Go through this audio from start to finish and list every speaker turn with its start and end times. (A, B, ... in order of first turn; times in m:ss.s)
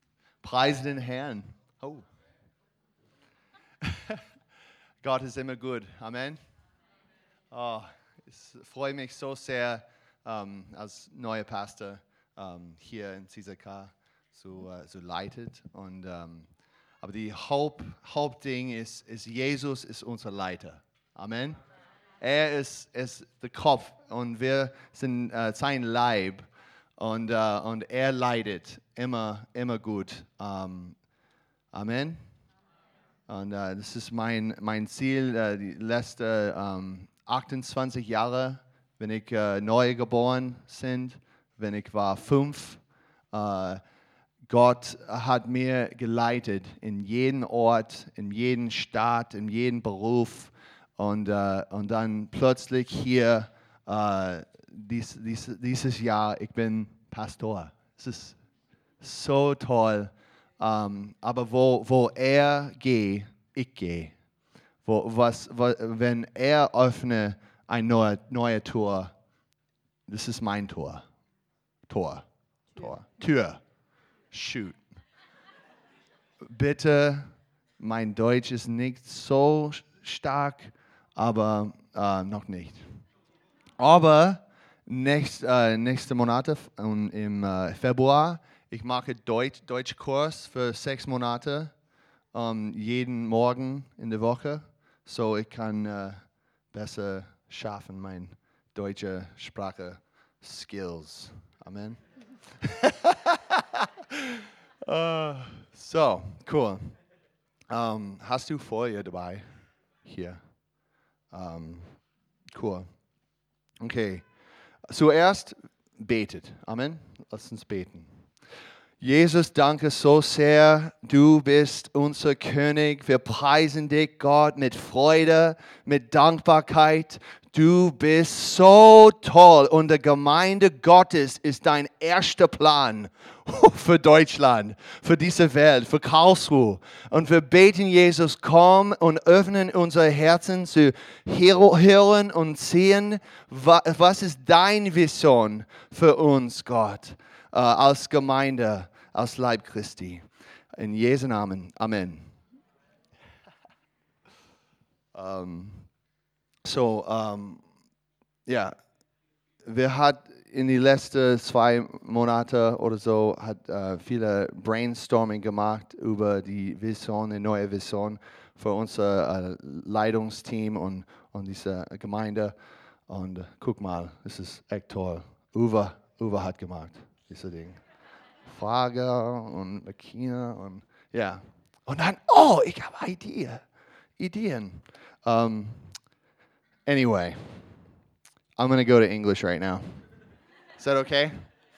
0:00.4-0:02.0 A
0:03.8-0:04.2 A
0:05.0-0:06.4 A
0:07.5-0:16.5 A
0:17.0-0:21.6 A
0:22.2-0:26.5 A
0:27.0-0:31.0 A
0:31.7-0:32.2 A
0:33.3-0:42.8 A
0:43.3-0:43.8 A
0:44.5-0:58.4 A
0:59.0-1:04.1 A
1:04.8-1:09.1 A
1:10.1-1:11.0 A
1:11.9-1:12.2 A
1:12.8-1:13.6 A
1:14.3-1:14.8 A
1:16.4-1:17.3 A
1:17.8-1:23.0 A
1:23.8-1:31.7 A
1:32.3-1:36.2 A
1:36.7-1:42.0 A
1:42.6-1:47.0 A
1:47.7-1:49.4 A
1:50.0-1:50.4 A
1:51.3-1:51.9 A
1:52.5-1:52.8 A
1:53.8-1:54.2 A
1:54.9-1:58.1 A
1:59.0-2:30.2 A
2:30.8-2:32.3 A
2:35.1-2:35.9 A
2:36.6-2:37.6 A
2:38.4-2:38.7 A
2:39.6-2:52.5 A
2:53.1-2:57.8 A
2:58.5-3:03.6 A
3:04.2-3:05.9 A
3:06.8-3:07.6 A
3:08.6-3:09.8 A
3:10.8-3:11.3 A